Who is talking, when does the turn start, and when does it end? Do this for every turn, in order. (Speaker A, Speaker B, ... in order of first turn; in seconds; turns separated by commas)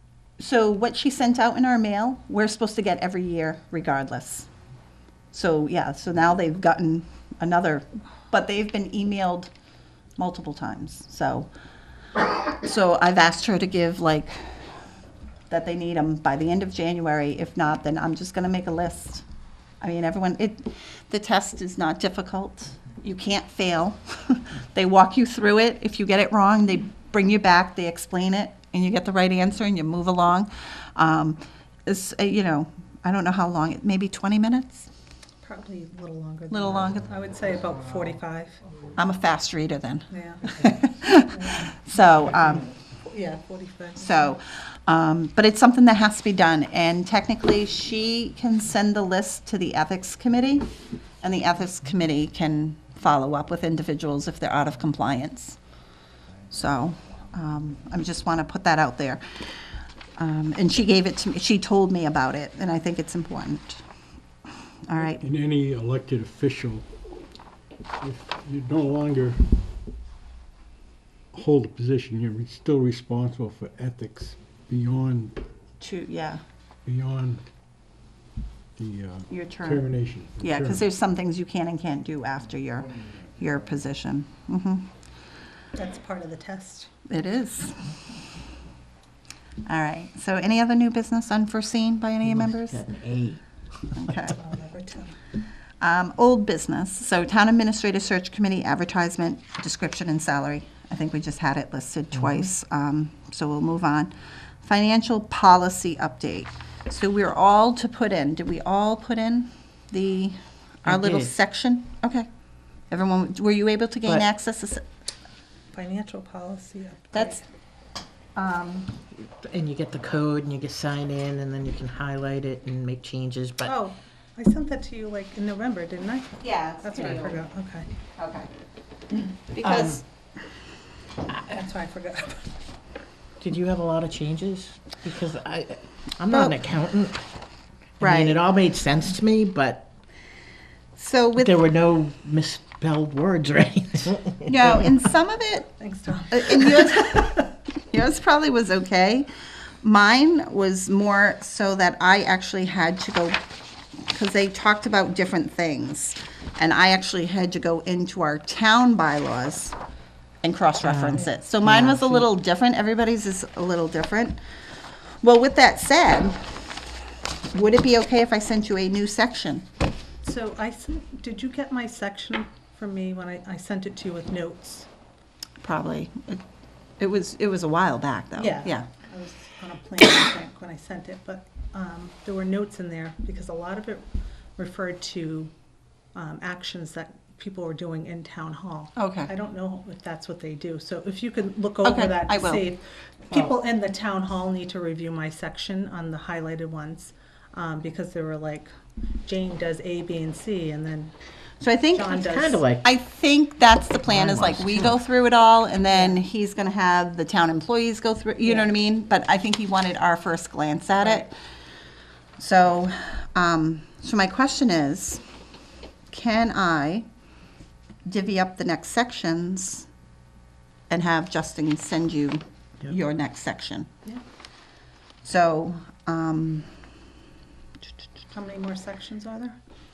Speaker A: 0.4-4.5, Speaker A: 5.3-9.5, Speaker A: 10.2-11.5, Speaker A: 12.6-14.4, Speaker A: 15.5-19.2, Speaker A: 19.8-34.9, Speaker B: 35.4-38.6, Speaker A: 36.5-37.0, Speaker A: 39.0-42.7, Speaker B: 40.1-40.6, Speaker B: 41.3-41.7, Speaker B: 43.1-44.4, Speaker A: 44.0-50.7, Speaker A: 51.2-55.6, Speaker A: 56.5-59.4, Speaker A: 60.2-63.8, Speaker A: 64.9-65.2, Speaker C: 65.0-66.9, Speaker C: 68.0-69.5, Speaker C: 71.3-75.4, Speaker A: 75.8-76.4, Speaker C: 76.8-77.5, Speaker C: 78.8-80.9, Speaker A: 79.3-79.9, Speaker A: 80.4-84.9, Speaker B: 85.8-86.9, Speaker A: 87.1-87.9, Speaker A: 89.7-92.8, Speaker D: 92.2-93.4, Speaker A: 94.0-94.4, Speaker B: 94.2-95.2, Speaker A: 95.8-112.3, Speaker D: 110.9-111.3, Speaker A: 112.9-114.8, Speaker B: 115.7-117.4, Speaker A: 117.1-117.4, Speaker A: 118.4-118.9, Speaker D: 119.1-123.8, Speaker B: 123.7-127.9, Speaker A: 126.4-127.4, Speaker A: 128.2-128.5, Speaker A: 129.5-130.0, Speaker B: 129.7-129.9, Speaker B: 131.3-132.5, Speaker D: 133.4-137.2, Speaker A: 136.3-136.6, Speaker D: 138.0-139.9, Speaker A: 138.0-138.4, Speaker A: 141.0-141.6, Speaker D: 141.4-144.8, Speaker A: 144.5-145.8, Speaker B: 145.8-147.4, Speaker A: 146.3-149.3, Speaker A: 149.8-153.4, Speaker A: 154.1-159.8, Speaker A: 160.4-164.4, Speaker D: 160.8-162.3, Speaker A: 165.2-166.9, Speaker A: 167.5-169.7, Speaker B: 170.2-174.9, Speaker A: 175.6-176.4, Speaker A: 177.0-178.9, Speaker B: 178.4-184.1, Speaker B: 184.6-185.5, Speaker B: 186.2-198.7, Speaker A: 189.0-189.3, Speaker A: 191.8-192.7, Speaker B: 199.2-201.1, Speaker A: 201.6-202.2, Speaker B: 201.9-202.7, Speaker D: 202.1-202.8, Speaker A: 202.8-211.3, Speaker D: 204.1-204.9, Speaker B: 205.9-206.2, Speaker B: 208.4-208.7, Speaker B: 211.0-211.3, Speaker A: 212.4-215.2, Speaker A: 216.1-217.1, Speaker A: 218.1-219.9, Speaker A: 220.9-223.9, Speaker A: 225.2-226.7, Speaker B: 228.3-229.6